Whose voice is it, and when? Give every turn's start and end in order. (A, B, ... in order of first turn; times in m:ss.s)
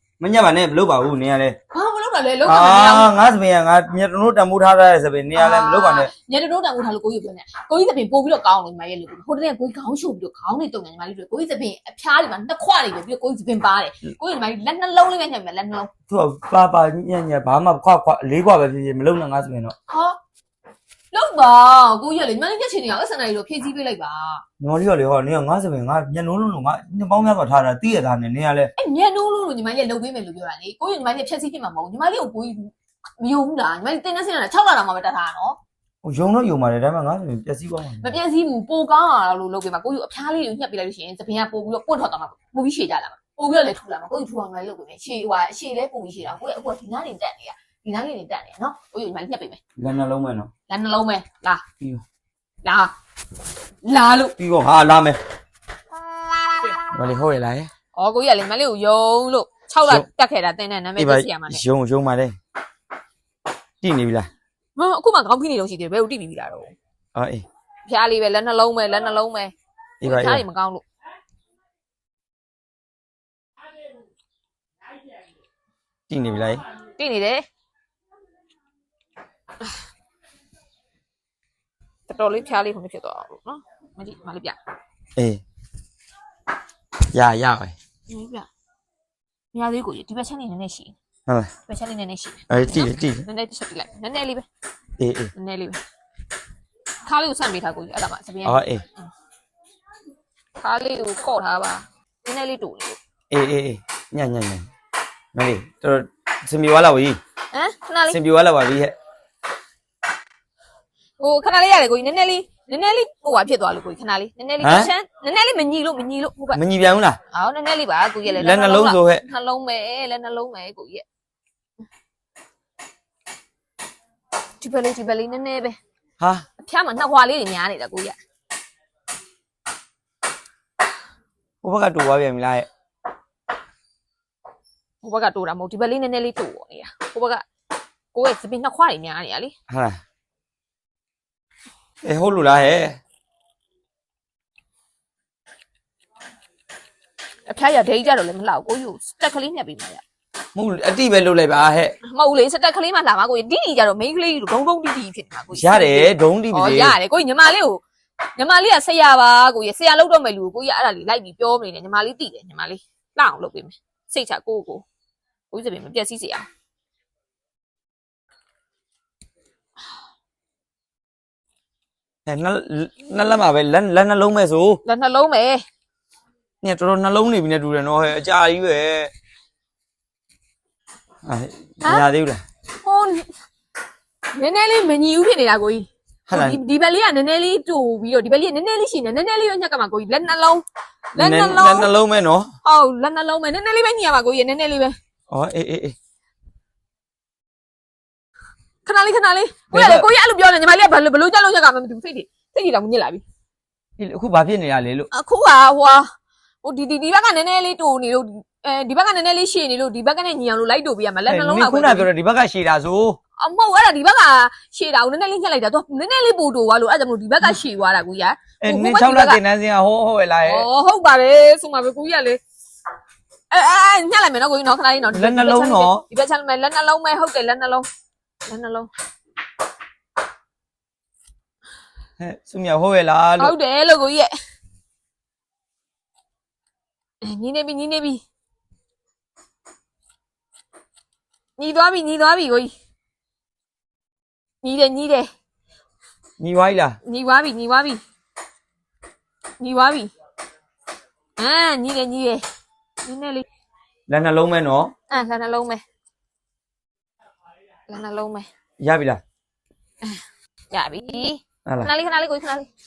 0:00.2-0:01.6 A
0:01.7-0:03.1 B
0:02.4-0:06.1 A
0:05.3-0:15.9 B
0:16.1-0:19.7 A
0:19.9-0:20.2 B
0:21.1-0:24.4 B
0:24.6-0:28.7 A
0:28.8-0:35.6 B
0:36.0-0:38.2 A
0:38.0-0:49.6 B
0:49.8-0:50.5 A
0:50.7-0:51.6 B
0:52.6-0:52.9 B
0:53.8-0:54.4 B
0:54.4-0:55.2 A
0:56.9-0:57.7 A
0:57.9-1:01.6 B
1:01.0-1:02.4 A
1:03.8-1:04.3 A
1:04.8-1:06.7 B
1:07.1-1:07.4 A
1:07.8-1:10.8 B
1:10.0-1:10.4 A
1:16.1-1:16.6 A
1:17.0-1:17.4 B
1:22.1-1:24.6 B
1:25.2-1:25.4 A
1:27.1-1:27.7 A
1:28.1-1:28.5 B
1:29.5-1:30.9 B
1:31.7-1:34.4 B
1:32.5-1:33.2 A
1:35.0-1:35.3 A
1:35.3-1:35.8 B
1:37.0-1:39.1 B
1:38.4-1:38.8 A
1:40.6-1:43.0 B
1:43.3-1:44.7 A
1:45.3-1:47.2 A
1:47.5-1:48.2 B
1:48.1-1:48.9 A
1:51.2-1:56.6 B
1:54.6-1:54.9 A
1:56.5-1:57.2 A
1:57.3-2:01.0 B
1:58.2-1:59.2 A
2:04.6-2:05.8 B
2:06.6-2:08.1 B
2:11.6-2:12.7 A
2:15.0-2:17.4 B
2:18.1-2:19.5 B
2:19.7-2:20.0 A
2:22.0-2:23.0 A
2:27.5-2:30.0 B
2:30.5-2:31.9 A
2:32.1-2:37.8 B
2:35.5-2:37.0 A
2:38.3-2:44.8 B
2:45.5-2:46.4 B
2:52.2-2:54.8 A
2:54.8-2:55.6 B
2:56.6-2:59.1 A
3:01.2-3:02.4 A
3:02.8-3:03.3 B
3:04.3-3:11.9 B
3:06.3-3:06.6 A
3:11.2-3:12.5 A
3:12.6-3:14.9 B
3:15.3-3:15.9 A
3:18.8-3:23.2 B
3:19.7-3:20.1 A
3:24.0-3:25.1 A
3:25.1-3:26.0 B
3:26.6-3:32.1 B
3:31.3-3:33.2 A
3:33.4-3:39.4 B
3:38.6-3:40.7 A
3:40.4-3:42.4 B
3:43.5-3:47.8 B
3:45.1-3:46.0 A
3:48.5-3:48.9 B
3:52.2-3:53.5 A
3:53.4-3:54.3 B
3:57.2-3:58.2 B
4:01.6-4:02.7 B
4:04.6-4:05.3 B
4:06.4-4:07.0 A
4:07.0-4:08.0 B
4:09.6-4:10.1 B
4:11.4-4:12.4 B
4:13.0-4:13.4 B
4:14.1-4:14.9 A
4:15.1-4:15.8 B
4:17.9-4:18.5 B
4:18.8-4:19.2 A
4:20.7-4:22.7 B
4:21.6-4:21.9 A